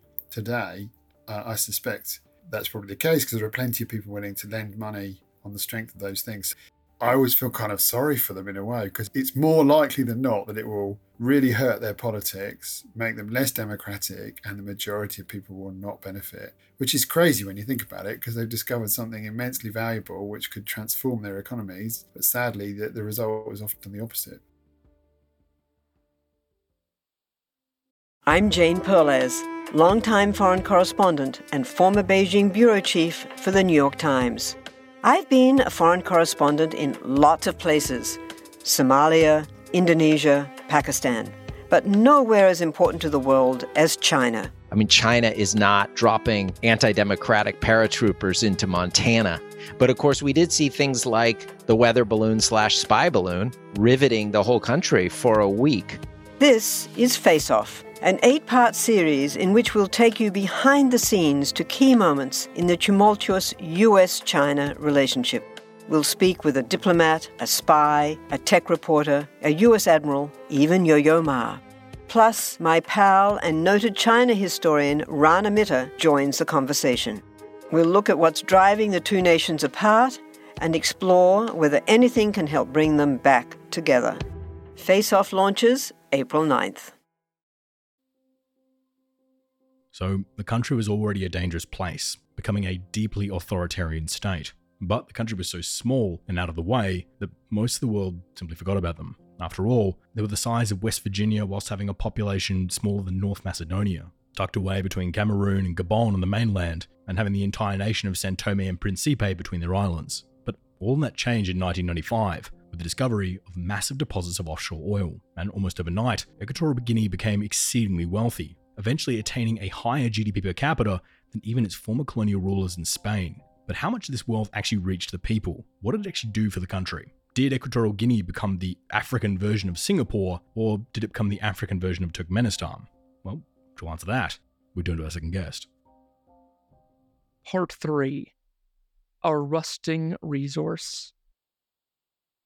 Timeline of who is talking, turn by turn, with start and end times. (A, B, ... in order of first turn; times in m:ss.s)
0:00.3-0:24.4 A
0:28.2-0:44.5 B
0:44.7-0:56.0 C
0:56.4-1:24.2 B
1:24.7-1:26.9 B
1:29.9-2:15.7 D
2:17.4-2:18.3 E
2:19.2-2:21.1 E